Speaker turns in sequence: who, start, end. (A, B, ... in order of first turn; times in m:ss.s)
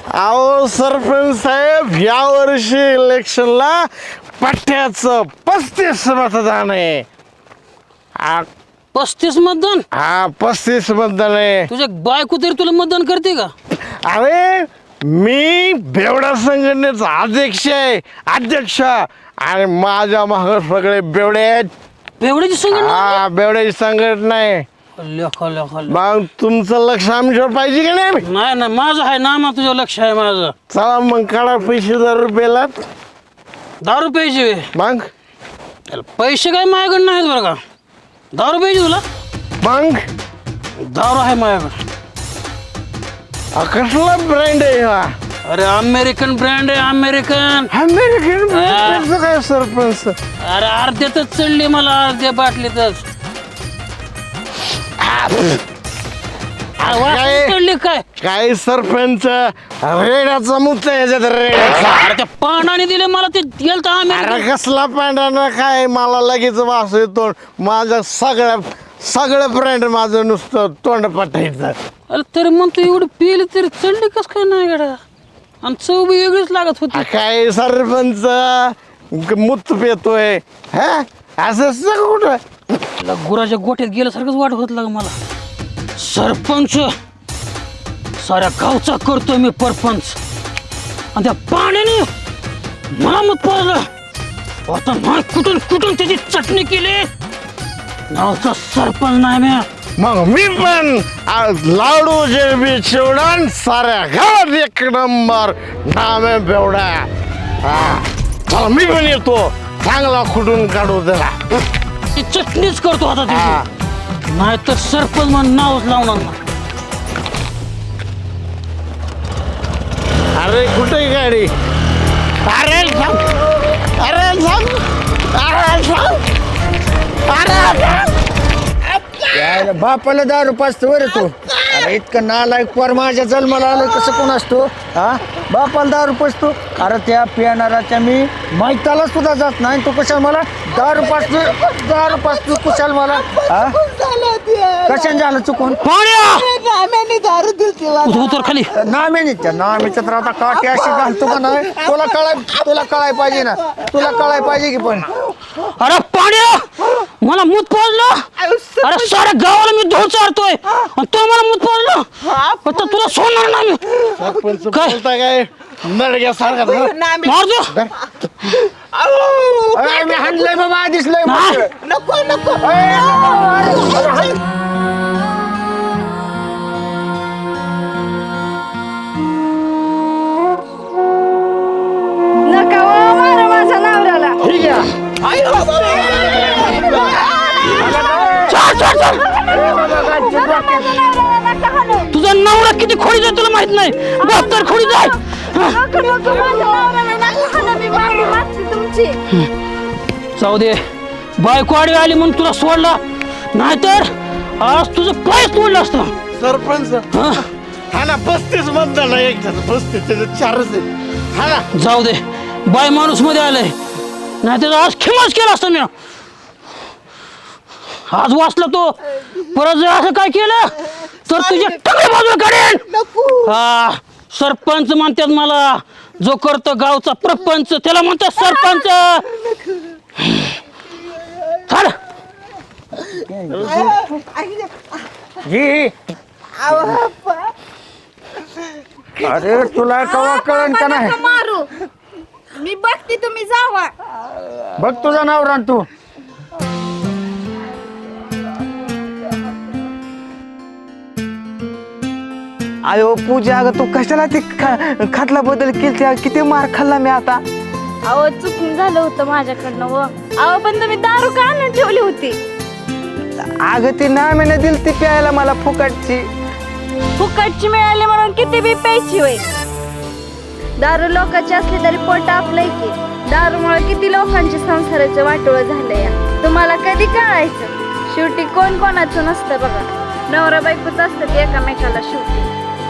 0:00.1-0:03.8 A
0:04.4-0:07.0 A
0:08.2-0:08.5 A
0:08.9-0:09.8 B
0:10.0-0:11.7 A
0:11.7-0:13.5 B
0:13.8-0:21.7 A
0:22.2-0:23.2 B
0:22.7-0:24.7 A
0:25.0-0:26.0 B
0:25.9-0:28.2 A
0:28.2-0:30.6 B
0:30.7-0:32.7 A
0:33.8-0:34.7 B
0:34.8-0:35.1 A
0:35.9-0:37.6 B
0:38.3-0:39.0 B
0:39.6-0:40.0 A
0:40.8-0:41.8 B
0:43.6-0:45.1 A
0:45.4-0:47.7 B
0:47.7-0:50.2 A
0:48.5-0:49.1 B
0:50.4-0:53.0 B
0:55.0-0:55.6 A
0:56.8-0:57.5 A
0:56.8-0:58.0 B
0:58.2-1:02.1 A
1:01.9-1:04.5 B
1:04.1-1:11.8 A
1:12.1-1:15.0 B
1:15.6-1:17.1 B
1:16.9-1:22.4 A
1:23.0-1:25.2 B
1:26.0-1:26.9 B
1:28.2-1:30.2 B
1:31.1-1:32.1 B
1:32.9-1:33.9 B
1:34.7-1:37.1 B
1:38.1-1:39.7 B
1:40.0-1:47.1 A
1:47.6-1:51.4 A
1:52.2-1:53.6 B
1:53.3-1:53.7 A
1:54.3-1:56.4 B
2:00.4-2:01.5 A
2:02.4-2:06.2 A
2:07.3-2:08.2 A
2:09.0-2:09.3 A
2:09.3-2:23.8 C
2:20.8-2:25.2 D
2:24.9-2:25.8 C
2:25.8-2:26.5 B
2:26.3-2:28.6 D
2:28.0-2:28.7 B
2:28.7-2:35.1 C
2:30.5-2:32.8 D
2:33.3-2:34.2 D
2:35.8-2:38.2 B
2:38.4-2:39.2 D
2:38.8-2:42.1 B
2:42.2-2:43.1 D
2:42.6-2:43.8 B
2:44.1-2:44.3 D
2:44.2-2:46.9 A
2:44.7-2:45.0 B
2:46.4-2:47.5 D
2:47.2-2:47.8 B
2:48.7-2:50.6 D
2:49.7-2:51.7 C
2:51.2-2:51.6 B
2:51.8-2:53.1 D
2:52.6-2:54.4 C
2:52.8-2:54.0 E
3:02.5-3:04.4 E
3:04.4-3:04.9 A
3:05.2-3:07.5 D
3:06.1-3:12.1 E
3:06.4-3:06.8 A
3:07.7-3:08.6 C
3:08.5-3:09.2 B
3:09.5-3:10.9 C
3:12.1-3:15.8 B
3:14.2-3:19.2 E
3:20.4-3:20.8 B
3:21.4-3:23.0 B
3:23.5-3:24.1 B
3:24.6-3:26.1 B
3:26.4-3:27.1 A
3:27.1-3:27.4 B
3:27.9-3:31.7 A
3:31.7-3:33.8 B
3:34.4-3:35.9 B
3:38.1-3:42.9 B
3:41.3-3:41.8 D
3:42.9-3:43.5 D
3:43.4-3:49.3 B
3:48.4-3:50.0 D
3:50.2-3:50.5 B
3:51.7-3:52.0 B
3:53.3-3:54.0 C
3:53.6-3:54.7 D
3:55.4-3:55.9 C
3:56.6-3:57.5 D
3:59.2-4:01.2 C
4:00.0-4:01.7 E
4:02.6-4:03.9 E
4:04.8-4:05.9 C
4:12.8-4:17.4 D
4:18.0-4:22.4 E
4:23.4-4:26.3 D
4:27.2-4:29.4 E
4:30.8-4:42.5 E